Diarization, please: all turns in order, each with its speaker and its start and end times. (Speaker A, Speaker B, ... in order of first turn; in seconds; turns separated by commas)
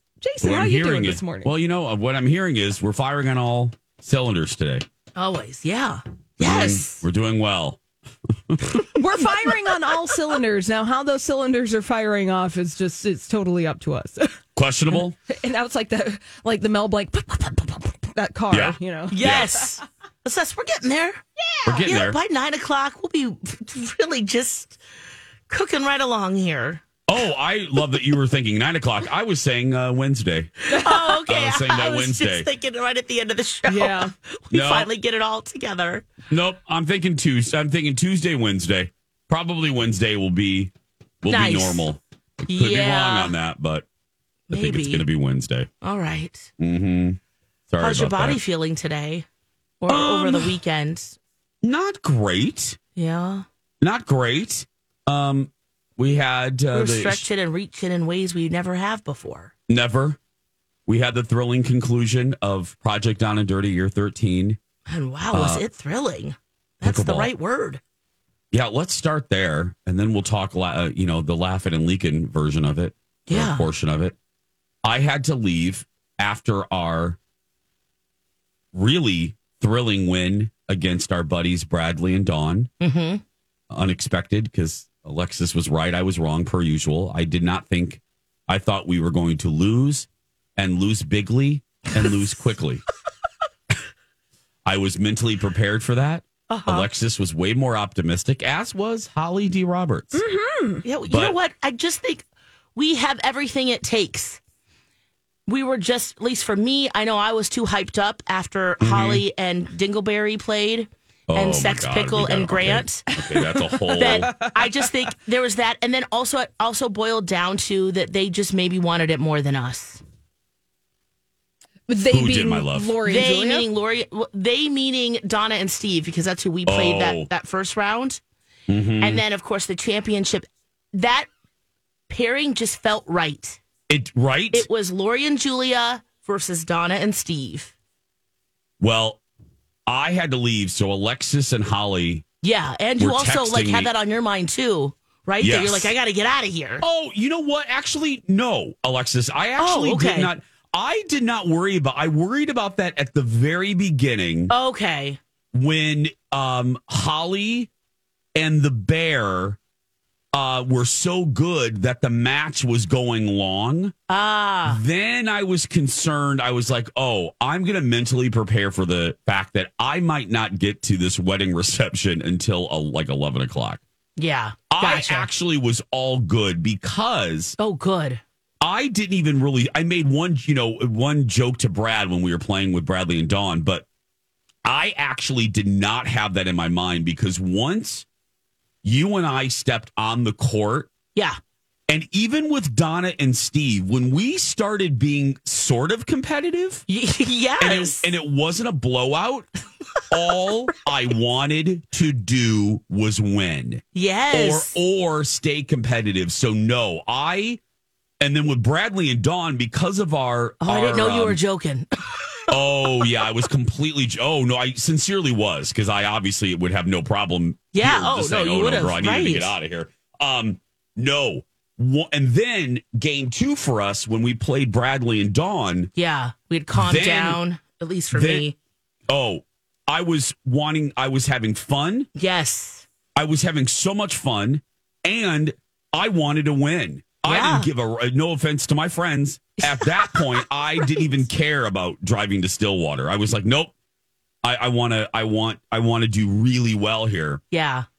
Speaker A: 0.2-1.5, Speaker B: 0.4-4.9, Speaker C: 5.2-7.0, Speaker B: 6.4-8.9, Speaker A: 8.9-14.4, Speaker B: 14.6-15.2, Speaker A: 14.9-19.3, Speaker B: 18.5-19.5, Speaker C: 19.1-24.8, Speaker B: 21.6-22.2, Speaker C: 25.5-27.0, Speaker B: 27.1-32.5, Speaker C: 30.7-36.1, Speaker A: 30.7-31.0, Speaker A: 33.7-34.1, Speaker B: 34.5-34.9, Speaker B: 36.3-43.9, Speaker C: 41.3-41.9, Speaker C: 42.5-43.3, Speaker C: 44.5-45.0, Speaker B: 44.5-45.7, Speaker C: 45.8-46.5, Speaker B: 46.6-47.2, Speaker B: 47.7-48.4, Speaker C: 47.8-49.3, Speaker C: 49.8-51.2, Speaker B: 49.9-50.5, Speaker B: 51.6-52.8, Speaker C: 53.0-53.5, Speaker B: 53.8-57.3, Speaker C: 56.7-59.5, Speaker B: 59.7-60.2, Speaker B: 60.9-64.6, Speaker C: 64.9-67.8, Speaker B: 65.3-65.6, Speaker B: 66.8-67.3, Speaker B: 68.5-74.2, Speaker C: 73.3-73.7, Speaker B: 74.8-77.2, Speaker B: 78.7-82.7, Speaker C: 82.8-83.2, Speaker B: 83.7-92.8, Speaker B: 94.7-100.2, Speaker C: 96.5-96.9, Speaker A: 100.1-100.8, Speaker C: 100.8-102.2, Speaker B: 101.1-101.4, Speaker C: 102.8-104.4, Speaker C: 105.5-113.1, Speaker B: 108.8-109.2, Speaker B: 111.3-114.4, Speaker A: 113.2-114.9, Speaker C: 114.0-120.0, Speaker A: 121.9-123.7, Speaker B: 122.0-123.0, Speaker C: 123.0-128.2, Speaker B: 126.7-127.3, Speaker B: 128.7-129.2, Speaker C: 129.0-131.3, Speaker C: 132.1-133.6, Speaker B: 133.9-134.7, Speaker C: 134.5-137.7, Speaker B: 138.8-139.2, Speaker B: 139.9-142.2, Speaker C: 142.4-146.8, Speaker B: 143.0-143.9, Speaker B: 145.4-145.9, Speaker B: 146.8-154.5, Speaker C: 149.6-150.3, Speaker C: 154.5-155.2, Speaker B: 155.5-157.7, Speaker B: 158.3-159.6, Speaker B: 160.3-163.9, Speaker C: 164.1-164.8, Speaker B: 164.6-173.8, Speaker C: 174.2-175.3, Speaker B: 174.7-177.6, Speaker C: 177.6-178.2, Speaker B: 178.6-183.9, Speaker B: 184.7-188.1, Speaker B: 188.8-190.9, Speaker B: 191.9-196.8, Speaker C: 196.9-198.1, Speaker B: 197.6-199.5, Speaker B: 200.1-207.6, Speaker C: 203.9-204.8, Speaker B: 208.2-211.4, Speaker C: 210.6-212.6, Speaker B: 212.5-225.9, Speaker C: 217.7-219.5, Speaker C: 226.0-228.6, Speaker B: 226.8-227.4, Speaker B: 228.1-228.5, Speaker B: 229.1-232.1, Speaker C: 232.2-232.8, Speaker B: 233.2-243.7, Speaker C: 237.2-237.7, Speaker C: 239.6-241.1, Speaker B: 244.4-247.4, Speaker C: 247.5-247.9